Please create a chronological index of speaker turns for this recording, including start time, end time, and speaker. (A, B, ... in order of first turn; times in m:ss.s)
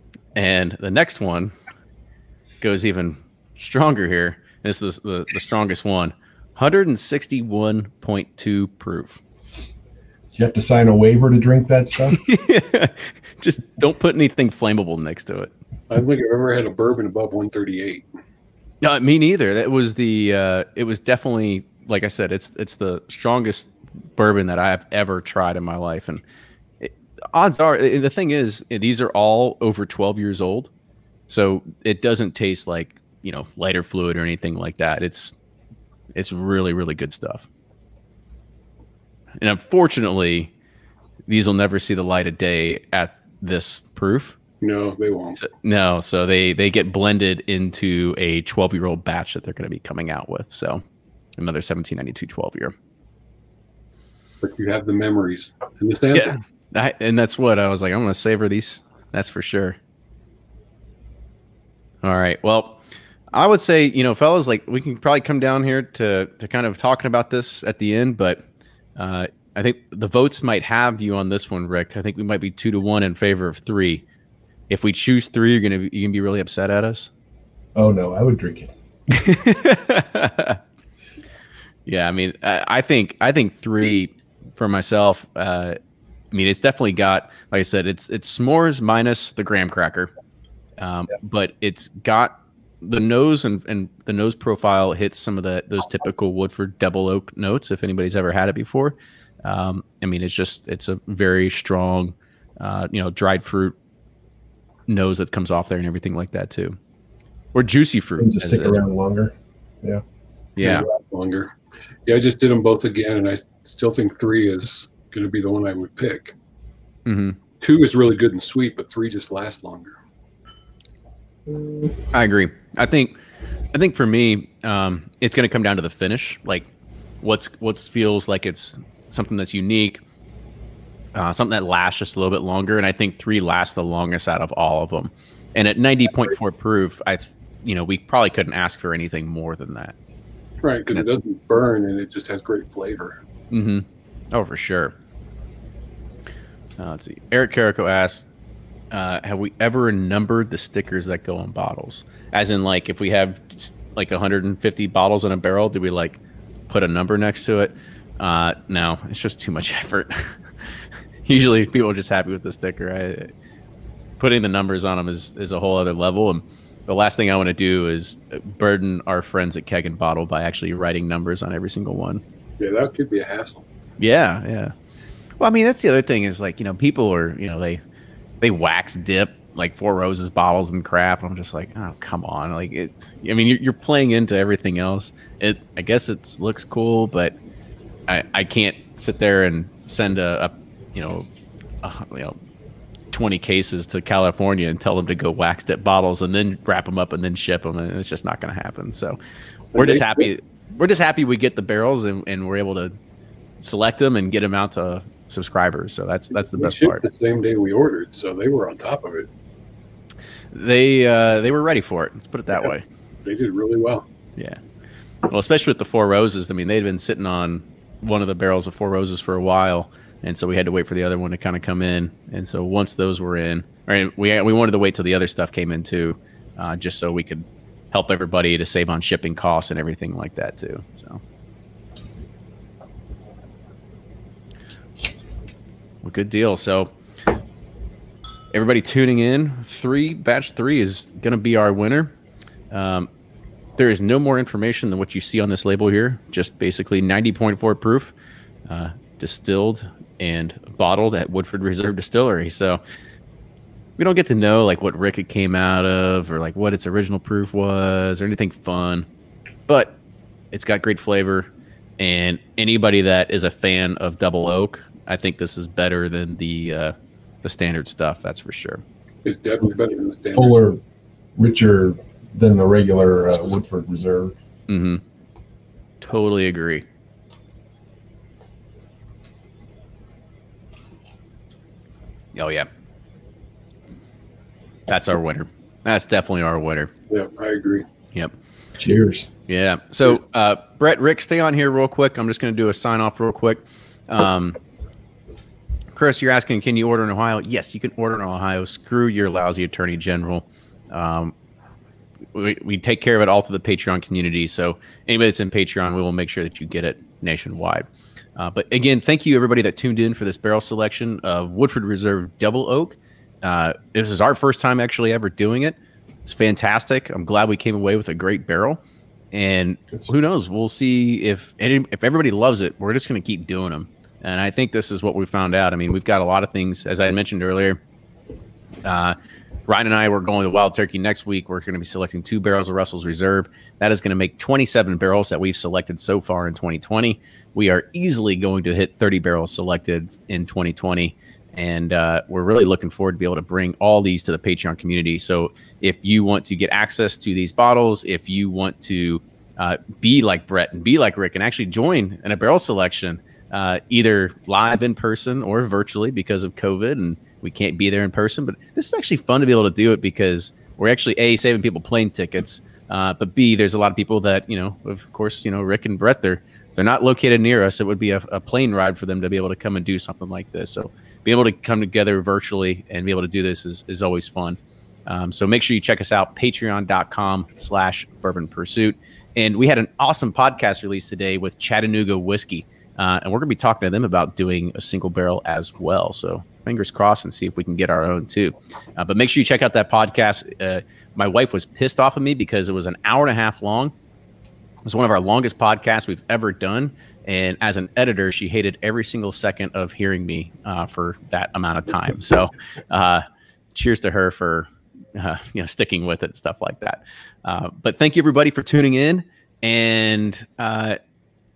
0:00.4-0:01.6 A
0:02.6-0:09.2 A
0:10.3-0:12.2 B
0:12.1-0:15.5 A
0:15.9-0:18.1 C
0:18.8-0:26.2 A
0:26.8-0:30.7 A
0:31.3-0:35.4 A
0:36.2-0:37.5 A
0:39.4-0:40.5 A
0:41.3-0:44.4 A
0:44.6-0:45.4 C
0:45.4-0:50.8 A
0:51.4-0:52.7 A
0:54.4-0:56.4 C
0:56.1-0:59.8 A
1:02.0-1:02.8 A
1:03.3-1:08.4 A
1:09.0-1:14.0 A
1:14.7-1:17.1 A
1:17.8-1:18.7 B
1:19.1-1:20.6 A
1:21.9-1:25.8 A
1:26.3-1:30.1 A
1:30.8-1:43.8 A
1:44.9-1:46.8 A
1:47.5-1:48.8 A
1:48.2-1:50.0 B
1:50.6-1:50.9 A
1:50.6-1:51.5 C
1:52.1-1:56.4 C
1:57.1-1:57.4 A
1:57.6-2:00.0 C
2:02.1-2:03.2 A
2:03.7-2:06.7 A
2:07.2-2:10.0 A
2:11.2-2:20.0 A
2:20.6-2:23.2 C
2:23.5-2:25.0 A
2:26.8-2:28.3 A
2:28.9-2:40.4 A
2:41.2-2:43.3 A
2:44.2-2:52.2 A
2:52.6-2:53.6 C
2:54.0-2:54.7 A
2:55.4-2:57.8 A
2:58.4-3:07.4 A
3:08.1-3:11.3 A
3:11.8-3:12.4 A
3:13.1-3:19.2 A
3:19.7-3:20.3 C
3:19.8-3:22.9 A
3:23.6-3:27.1 A
3:26.4-3:29.3 C
3:30.5-3:32.8 A
3:33.2-3:34.1 C
3:35.3-3:51.2 A
3:56.0-3:56.9 A
3:58.5-4:02.1 A
4:02.7-4:03.1 A
4:03.8-4:08.1 A
4:08.7-4:12.8 A
4:14.0-4:19.1 A
4:19.7-4:20.0 A
4:20.5-4:28.8 A
4:29.2-4:30.6 C
4:30.4-4:30.8 B
4:31.4-4:34.4 B
4:34.7-4:35.0 A
4:36.0-4:36.9 A
4:42.3-4:42.7 A
4:44.9-4:46.9 A
4:47.1-4:47.9 C
4:48.8-4:49.3 B
4:49.5-4:54.6 A
4:55.9-5:01.3 A
5:02.3-5:18.8 A
5:19.3-5:27.8 A
5:28.8-6:33.9 A
6:34.8-6:51.0 A